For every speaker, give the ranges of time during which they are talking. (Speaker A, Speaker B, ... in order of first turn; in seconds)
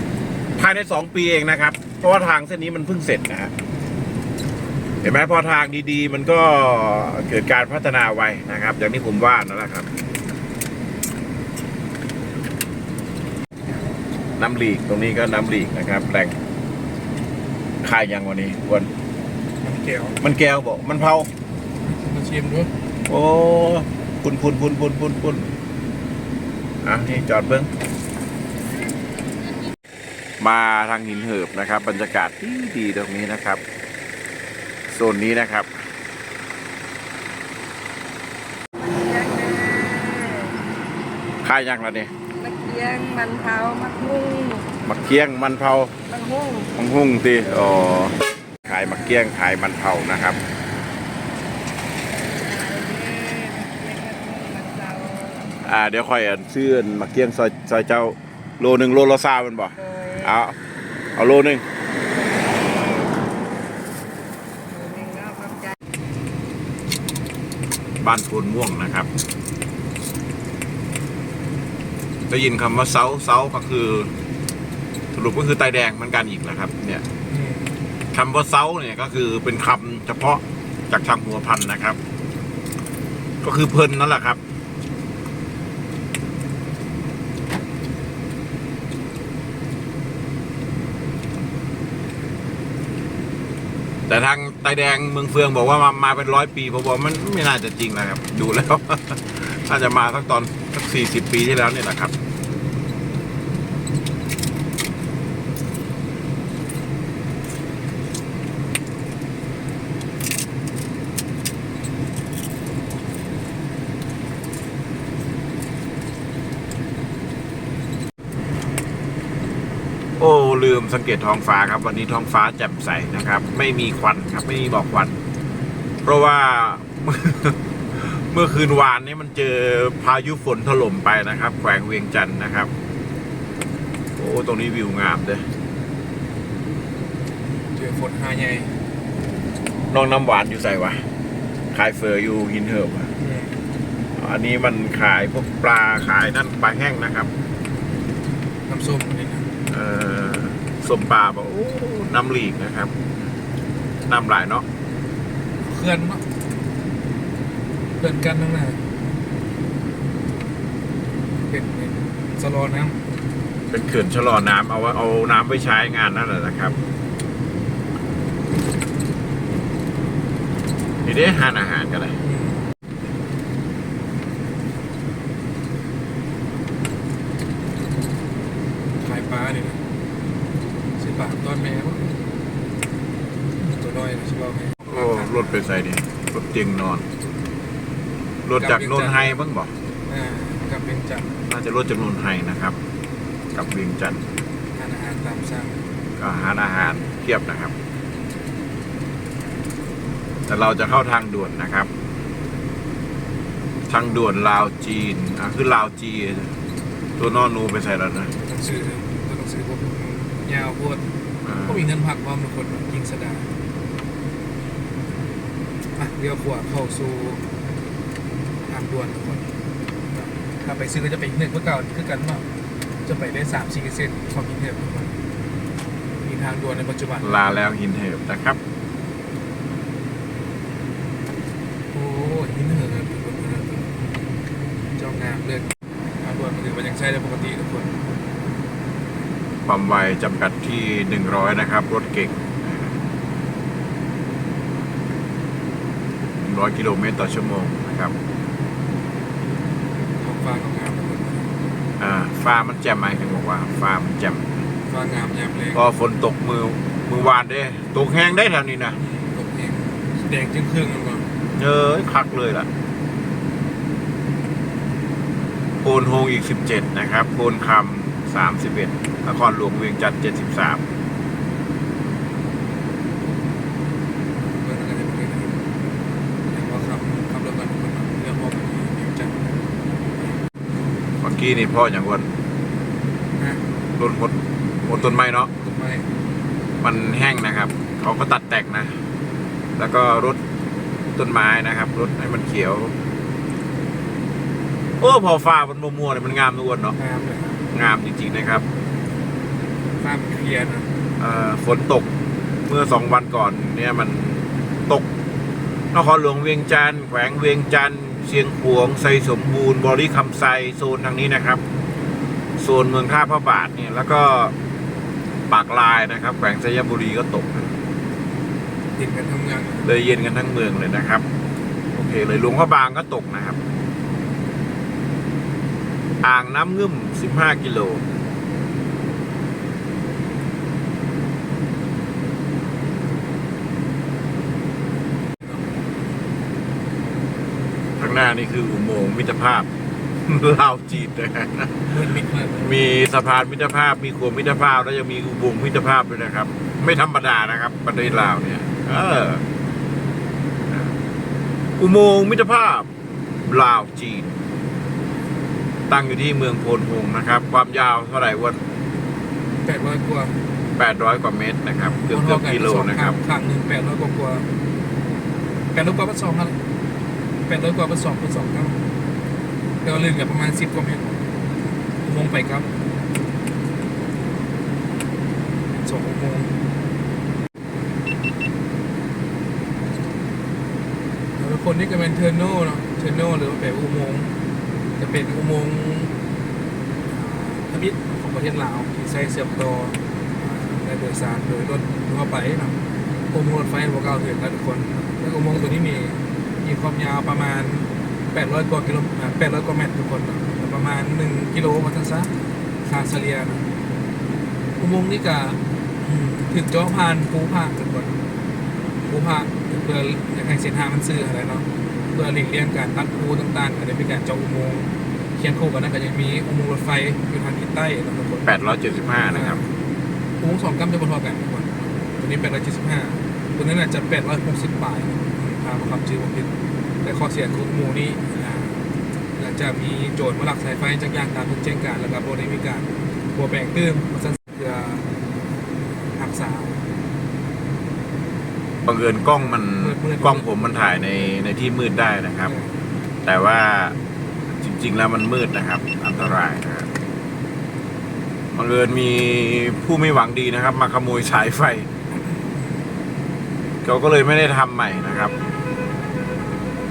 Speaker A: 0.6-3.5, 5.0-9.9, 14.4-16.3, 17.8-18.9, 20.2-21.3, 23.1-25.5, 26.8-27.7, 30.4-33.6, 34.9-35.7, 41.4-42.1, 44.8-45.9, 46.6-50.4, 55.6-60.6, 61.1-61.6, 68.0-69.1, 72.3-74.1, 75.1-77.0, 78.1-82.0, 83.4-84.4, 94.1-102.1, 120.2-125.2, 126.0-132.7, 134.2-135.4, 139.9-141.0, 141.7-143.1, 144.2-147.3, 149.7-152.9, 154.1-154.6, 163.7-166.7, 171.0-172.2, 184.9-187.1, 188.4-189.7, 191.5-192.8, 193.5-194.2, 196.2-197.7, 200.5-201.9, 203.9-206.5, 207.2-208.3, 211.4-211.9, 227.2-228.6, 239.7-243.0, 246.4-248.1, 252.0-254.4, 255.7-259.0, 261.6-262.7, 265.8-270.8, 281.2-282.3, 284.0-285.5, 286.8-288.9, 289.8-290.4, 291.1-292.9, 295.0-296.9, 297.7-298.6, 301.2-302.1, 302.6-305.0, 305.9-311.6, 312.6-314.5, 315.5-317.7, 319.8-321.2, 321.9-323.6, 326.2-328.0, 338.0-339.7, 340.2-341.9, 342.6-349.4, 350.7-350.9, 351.8-352.9, 353.5-354.4, 355.9-358.6, 360.8-363.2, 418.4-419.6, 438.8-442.5, 443.2-444.0, 444.6-446.9, 448.6-451.9, 453.8-455.3
Speaker B: 19.6-20.2, 21.8-22.7, 77.3-77.8, 137.7-138.7, 143.2-143.6, 148.7-149.5, 155.6-156.2, 158.0-158.8, 161.5-163.0, 172.2-172.6, 179.0-179.8, 181.0-182.2, 183.6-185.6, 188.6-189.4, 190.1-191.3, 194.7-195.9, 208.4-211.0, 211.7-213.5, 215.9-217.4, 218.6-219.4, 220.1-222.4, 223.1-225.1, 226.2-227.6, 231.9-234.0, 234.9-235.7, 236.2-238.0, 250.2-251.4, 254.9-255.9, 259.0-261.2, 274.5-275.6, 276.5-279.6, 283.4-283.6, 284.9-286.1, 297.0-297.6, 300.0-300.9, 318.9-319.9, 341.9-342.8, 359.6-360.4, 361.8-364.5, 365.7-366.5, 367.5-368.8, 369.8-371.2, 372.0-372.7, 375.8-376.6, 381.4-384.3, 385.0-386.1, 387.1-392.8, 393.3-402.3, 402.8-403.6, 404.8-408.2, 409.1-418.5, 419.2-419.6, 420.4-426.5, 427.0-428.8, 429.4-435.0, 436.1-436.8, 439.3-441.4, 442.4-442.8, 452.1-452.6
Speaker C: 38.9-40.5, 42.4-44.6, 46.1-46.6, 52.5-55.4, 64.8-65.6